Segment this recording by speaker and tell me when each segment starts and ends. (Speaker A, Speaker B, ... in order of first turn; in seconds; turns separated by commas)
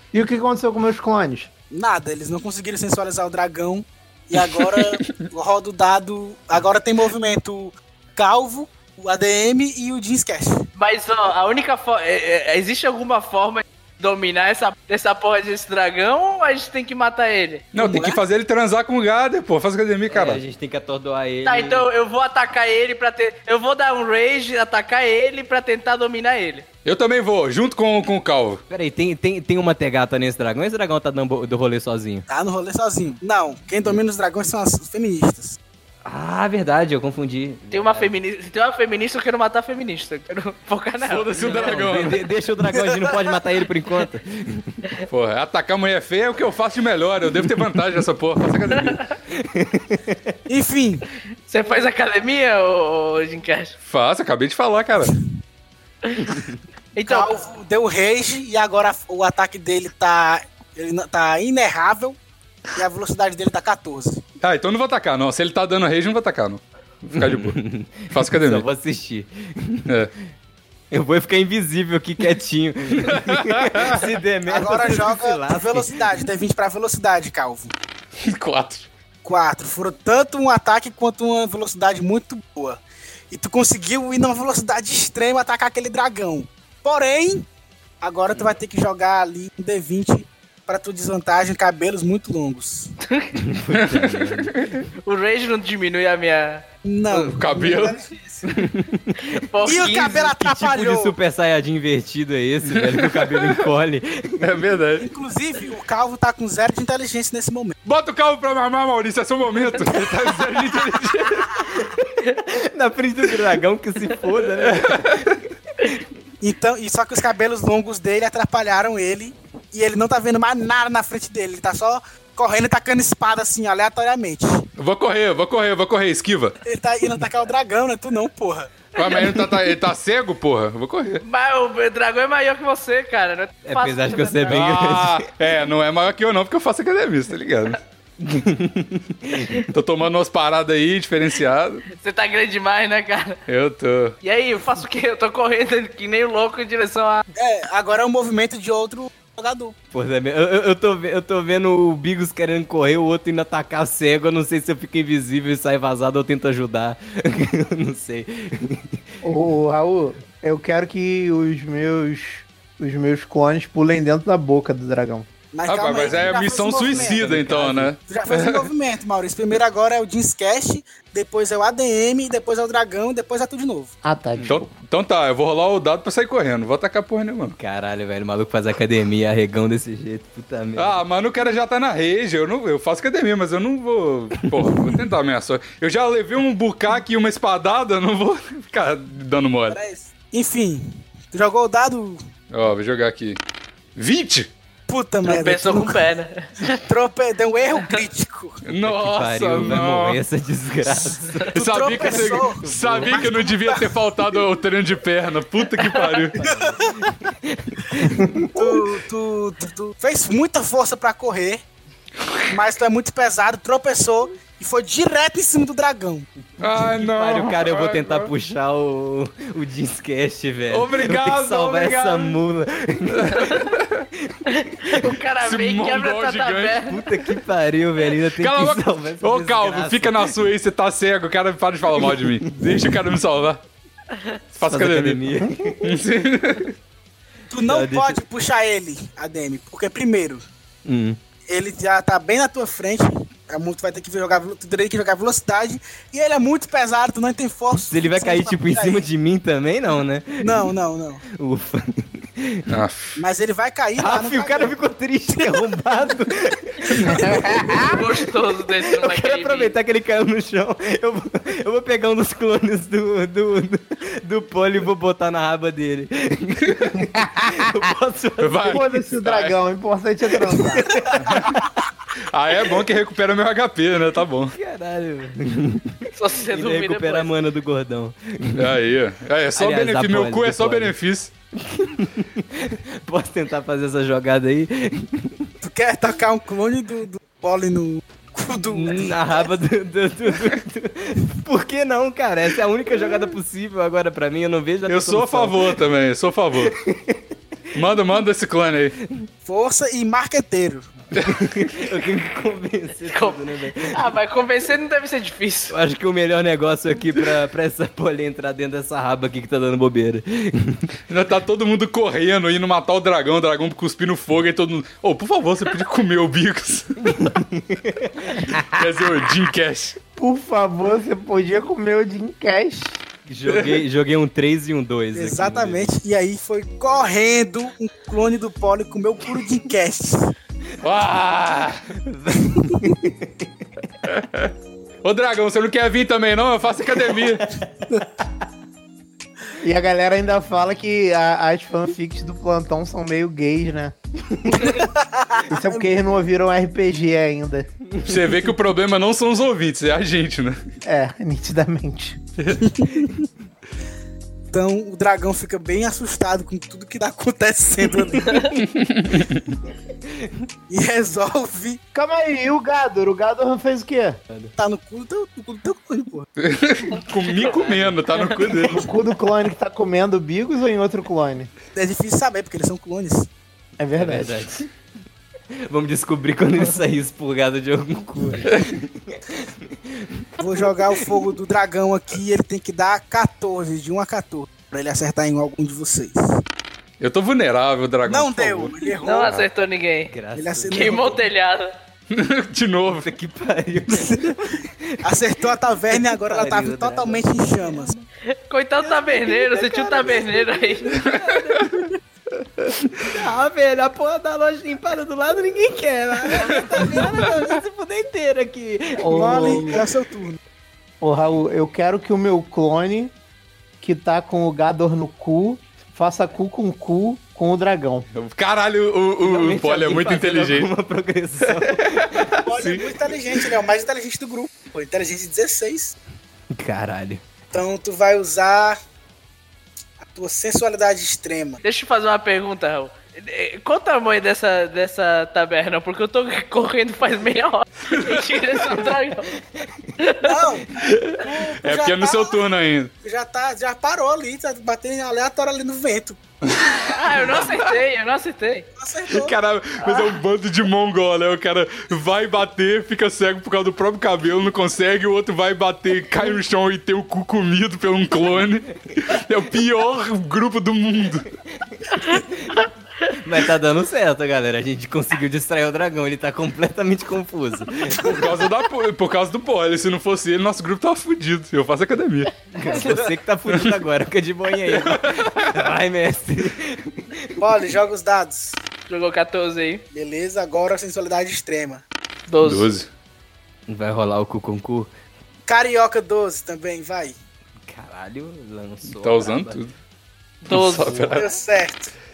Speaker A: 0.1-1.5, Speaker B: 1.7-10.7, Speaker C: 4.6-5.3, Speaker D: 10.8-18.2, Speaker C: 17.7-20.4, Speaker E: 20.1-21.9, Speaker D: 21.4-26.7, Speaker C: 26.9-28.6, Speaker E: 28.7-32.3, Speaker B: 32.3-35.6, Speaker E: 36.0-38.1, Speaker D: 37.7-41.4, Speaker C: 41.0-42.2, Speaker E: 41.3-44.9, Speaker C: 45.1-49.0, Speaker D: 48.7-49.0, Speaker E: 49.3-50.4, Speaker B: 50.5-51.1, Speaker D: 51.5-53.8, Speaker C: 53.8-55.1, Speaker E: 56.2-56.6, Speaker D: 57.0-57.3, Speaker B: 57.0-62.2, Speaker B: 62.8-64.3, Speaker C: 64.4-68.7, Speaker E: 67.2-69.9, Speaker E: 70.9-76.2, Speaker C: 73.0-74.0, Speaker B: 74.5-77.7, Speaker C: 78.2-78.9, Speaker B: 79.2-87.5, Speaker B: 88.0-92.9, Speaker D: 93.1-93.3, Speaker E: 93.3-94.8, Speaker C: 93.7-94.8, Speaker D: 95.0-96.6, Speaker B: 96.8-98.6, Speaker C: 97.1-98.0, Speaker E: 98.5-99.4, Speaker D: 99.3-100.3, Speaker B: 99.7-101.2, Speaker E: 100.1-104.6, Speaker C: 102.8-103.6, Speaker C: 104.4-105.1, Speaker B: 105.0-107.8, Speaker C: 107.8-111.7, Speaker E: 111.5-116.0, Speaker C: 114.6-115.3, Speaker B: 116.4-124.7, Speaker C: 124.8-126.6, Speaker B: 126.6-128.9, Speaker C: 128.9-131.2, Speaker D: 131.2-134.6, Speaker E: 133.7-135.3, Speaker C: 134.5-137.8, Speaker E: 138.2-139.7, Speaker C: 139.7-141.8, Speaker D: 141.9-143.4, Speaker C: 143.5-144.2, Speaker D: 144.2-147.3, Speaker B: 147.3-149.8, Speaker E: 149.9-159.1, Speaker A: 159.2-165.3, Speaker B: 165.5-167.2, Speaker C: 165.7-168.7, Speaker E: 166.1-167.9, Speaker B: 168.1-173.9, Speaker A: 174.0-174.7, Speaker C: 174.5-177.6, Speaker E: 177.6-181.0, Speaker C: 180.8-189.8, Speaker B: 189.7-192.2, Speaker C: 192.5-193.4, Speaker C: 194.0-194.5, Speaker B: 194.9-196.0, Speaker D: 195.2-196.8, Speaker B: 196.7-198.6, Speaker C: 198.7-200.2, Speaker E: 198.8-203.4, Speaker B: 201.5-204.0, Speaker C: 201.6-206.4, Speaker D: 205.8-206.3, Speaker E: 206.3-208.5, Speaker A: 208.2-208.5, Speaker B: 208.5-211.6, Speaker B: 212.5-216.3, Speaker E: 216.6-225.1, Speaker C: 216.6-218.3, Speaker C: 220.7-222.4, Speaker C: 223.1-224.1, Speaker D: 223.4-223.7, Speaker D: 224.5-227.0, Speaker C: 225.4-226.8, Speaker E: 226.8-230.4, Speaker C: 228.3-233.6, Speaker E: 232.0-232.5, Speaker D: 234.1-234.4, Speaker C: 234.5-236.8, Speaker E: 234.7-235.9, Speaker A: 235.4-235.8, Speaker B: 237.5-240.4, Speaker E: 237.7-238.2, Speaker E: 240.8-241.2, Speaker B: 241.5-249.1, Speaker E: 247.7-250.7, Speaker B: 250.4-251.2, Speaker E: 251.3-252.6, Speaker C: 252.7-253.2, Speaker B: 253.2-254.7, Speaker E: 254.0-258.0, Speaker B: 255.4-255.6, Speaker B: 256.9-257.4, Speaker A: 257.3-257.9, Speaker D: 257.8-259.7, Speaker E: 258.8-268.9, Speaker A: 267.1-267.9, Speaker C: 268.4-269.6, Speaker A: 268.7-271.0, Speaker E: 271.1-271.5, Speaker C: 271.2-271.6, Speaker C: 272.2-274.6, Speaker E: 274.5-278.8, Speaker D: 276.1-277.3, Speaker C: 278.6-281.3, Speaker E: 279.6-280.9, Speaker E: 281.6-285.5, Speaker B: 285.6-289.5, Speaker E: 288.7-295.8, Speaker C: 294.9-296.8, Speaker E: 296.6-297.3, Speaker C: 297.7-299.0, Speaker B: 299.4-300.9, Speaker C: 301.1-301.6, Speaker E: 301.2-304.0, Speaker D: 303.1-305.8, Speaker E: 305.7-310.9, Speaker C: 311.1-317.3, Speaker E: 317.0-318.5, Speaker C: 318.5-320.0, Speaker A: 320.2-323.0, Speaker E: 323.3-325.9, Speaker C: 323.5-323.8, Speaker B: 325.1-330.3, Speaker C: 330.8-331.8, Speaker E: 332.0-333.5, Speaker B: 332.6-332.9, Speaker C: 334.1-334.5, Speaker C: 335.0-337.6, Speaker A: 339.6-343.9, Speaker B: 344.5-345.8, Speaker A: 345.5-347.7, Speaker C: 348.0-350.6, Speaker A: 350.8-352.2, Speaker C: 352.4-352.7, Speaker B: 352.6-353.2, Speaker B: 354.5-358.6, Speaker C: 358.5-359.5, Speaker E: 360.0-360.5, Speaker B: 360.7-361.8, Speaker A: 361.9-364.2, Speaker B: 364.6-366.3, Speaker C: 366.4-368.9, Speaker E: 367.4-368.4, Speaker A: 368.7-371.5, Speaker B: 371.7-373.3, Speaker A: 373.8-374.5, Speaker E: 373.9-374.7, Speaker E: 375.6-381.2, Speaker B: 380.4-386.4, Speaker C: 387.0-388.8, Speaker B: 388.1-389.4, Speaker D: 389.0-390.1, Speaker E: 390.1-391.0, Speaker B: 390.3-391.2, Speaker D: 390.7-391.7, Speaker C: 392.1-393.1, Speaker E: 392.9-395.1, Speaker B: 395.0-397.9, Speaker E: 395.9-398.0, Speaker D: 398.3-400.9, Speaker E: 398.8-401.9, Speaker C: 401.0-401.7, Speaker C: 402.7-403.1, Speaker E: 402.9-409.8, Speaker C: 406.4-407.3, Speaker A: 409.0-409.9, Speaker B: 409.1-410.4, Speaker A: 411.0-413.1, Speaker A: 413.8-418.1, Speaker C: 418.1-420.7, Speaker E: 419.2-422.4, Speaker C: 421.5-422.9, Speaker B: 422.4-425.9, Speaker E: 426.5-427.2, Speaker B: 427.5-428.8, Speaker B: 430.1-431.6, Speaker D: 431.6-439.3, Speaker C: 437.9-438.4, Speaker E: 439.5-439.9, Speaker D: 440.0-440.4, Speaker B: 440.2-442.4, Speaker C: 440.7-442.9, Speaker B: 443.0-446.2, Speaker C: 446.6-446.9, Speaker D: 446.9-448.7, Speaker B: 448.8-449.4, Speaker C: 449.1-461.3, Speaker E: 461.5-462.6, Speaker E: 463.2-468.2, Speaker C: 467.9-472.3, Speaker E: 472.5-477.5, Speaker C: 473.5-473.7, Speaker C: 474.7-475.7, Speaker B: 477.4-478.6, Speaker D: 478.9-479.8, Speaker B: 479.9-481.8, Speaker D: 482.3-482.7, Speaker C: 482.4-482.9, Speaker E: 483.7-484.9, Speaker B: 485.5-487.2, Speaker E: 487.7-489.6, Speaker C: 488.9-489.7, Speaker D: 490.4-491.2, Speaker C: 490.5-491.3, Speaker B: 491.1-491.9